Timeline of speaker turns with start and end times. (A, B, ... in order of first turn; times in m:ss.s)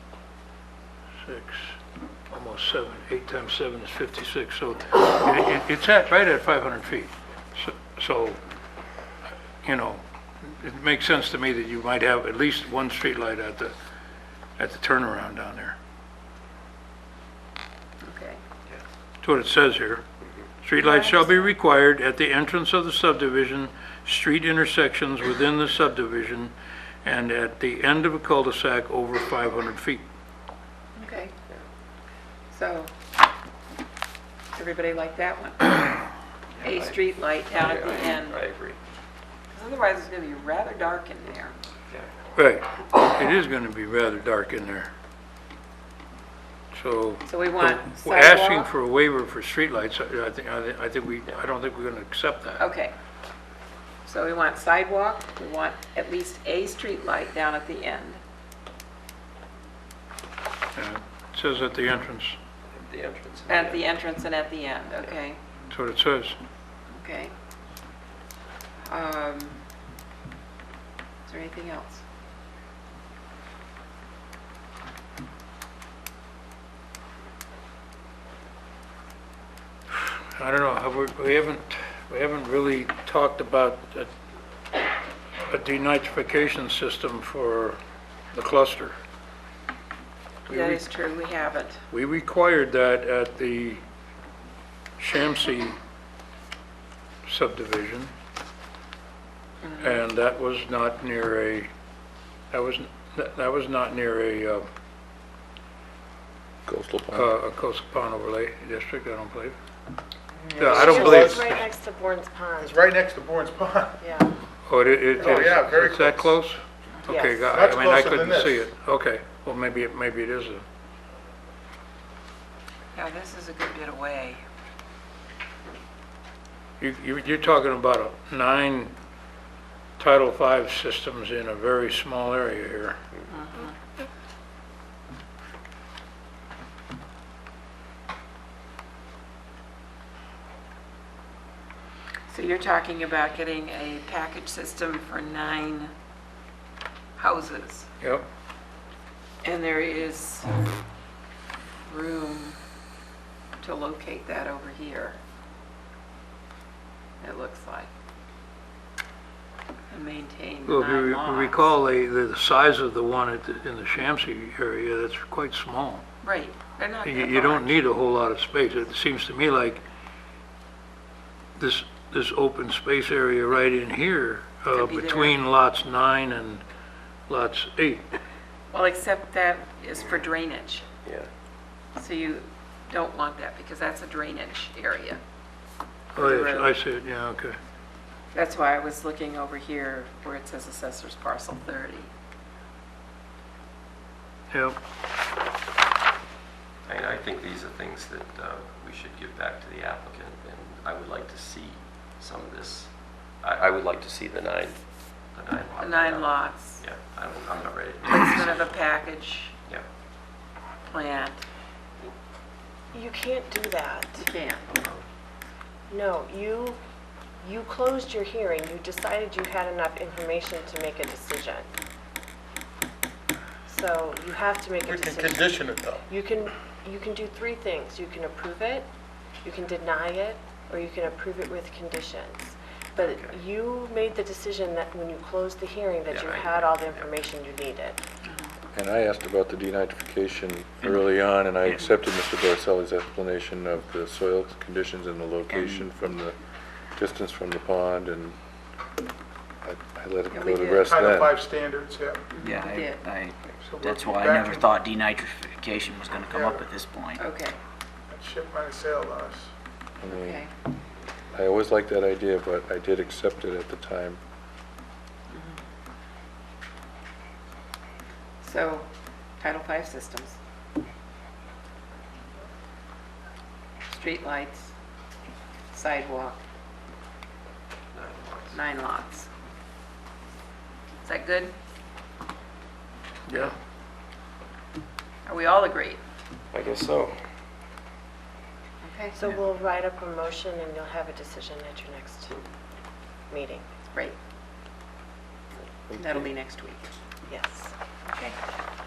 0:01.2-0:01.8 A
0:02.3-0:08.4 A
0:09.6-0:13.7 A
0:14.6-0:15.8 A
0:18.0-0:18.4 B
0:19.2-0:20.0 A
0:20.6-0:30.0 A
0:20.8-0:21.5 B
0:31.0-0:31.3 B
0:32.5-0:32.9 B
0:34.5-0:36.0 B
0:36.6-0:37.0 C
0:36.6-0:38.4 B
0:37.5-0:38.8 C
0:39.5-0:41.6 B
0:42.4-0:44.9 A
0:46.7-0:52.6 A
0:47.3-0:48.7 B
0:52.6-0:52.9 B
0:54.0-0:58.2 B
1:00.7-1:02.4 A
1:02.6-1:03.8 C
1:03.5-1:05.4 B
1:05.7-1:06.4 A
1:06.9-1:07.3 B
1:08.9-1:09.6 B
1:11.3-1:12.0 B
1:19.9-1:24.1 A
1:25.4-1:27.8 A
1:28.3-1:29.0 A
1:30.5-1:30.8 A
1:30.5-1:31.8 B
1:31.9-1:33.8 A
1:35.0-1:35.8 A
1:37.2-1:38.1 A
1:39.6-1:40.0 B
1:39.8-1:41.7 A
1:42.5-1:44.7 A
1:46.6-1:47.3 D
1:47.1-1:49.5 A
1:50.4-1:51.5 E
1:50.6-1:51.6 A
1:50.6-1:52.8 F
1:52.6-1:54.0 E
1:54.0-1:54.3 F
1:54.7-2:00.6 A
1:55.2-1:56.4 E
1:55.2-1:55.5 F
1:57.1-1:57.6 F
1:57.5-1:58.7 E
2:02.9-2:04.4 B
2:06.8-2:08.9 A
2:10.0-2:13.0 A
2:13.3-2:13.7 B
2:22.3-2:25.9 B
2:27.2-2:27.9 B
2:28.0-2:28.2 A
2:29.4-2:30.7 B
2:31.8-2:32.6 B
2:33.6-2:35.2 B
2:37.2-2:37.9 B
2:39.9-2:41.7 B
2:40.7-2:46.0 A
2:46.2-2:47.8 B
2:47.0-2:49.8 A
2:51.6-2:56.6 A
2:54.7-2:55.4 B
2:57.3-2:58.1 A
2:58.7-3:00.9 B
3:02.0-3:05.2 B
3:06.1-3:07.6 A
3:06.2-3:06.7 B
3:08.3-3:12.1 B
3:14.5-3:14.8 A
3:16.9-3:24.8 C
3:25.3-3:28.8 C
3:25.8-3:26.8 B
3:28.1-3:29.5 B
3:30.9-3:31.4 B
3:32.9-3:34.3 F
3:34.2-3:34.6 B
3:34.6-3:35.0 C
3:35.9-3:36.8 F
3:37.4-3:41.7 F
3:43.7-3:48.9 F
3:44.8-3:46.0 E
3:49.4-3:58.0 F
3:53.0-3:53.3 C
3:56.1-3:57.2 C
3:58.2-3:58.5 B
3:58.7-4:06.4 D
4:05.5-4:05.8 G
4:07.0-4:08.4 D
4:09.6-4:11.3 D
4:10.3-4:10.9 B
4:10.8-4:12.2 E
4:12.3-4:13.0 B
4:12.4-4:17.2 G
4:13.6-4:14.6 E
4:16.2-4:16.6 E
4:17.2-4:17.6 B
4:18.1-4:19.5 E
4:20.0-4:20.5 D
4:20.1-4:20.5 B
4:21.3-4:24.2 D
4:25.3-4:25.6 B
4:28.4-4:30.4 B
4:33.9-4:34.7 B
4:35.7-4:36.4 B
4:37.9-4:38.6 C
4:38.5-4:39.3 B
4:41.0-4:41.5 B
4:43.3-4:43.5 A
4:45.2-4:46.0 B
4:46.5-4:47.2 C
4:48.8-4:49.2 B
4:49.1-4:52.4 F
4:53.3-4:53.6 F
4:53.9-4:54.2 B
4:56.0-4:56.8 B
4:57.2-4:57.7 F
4:58.1-4:58.4 B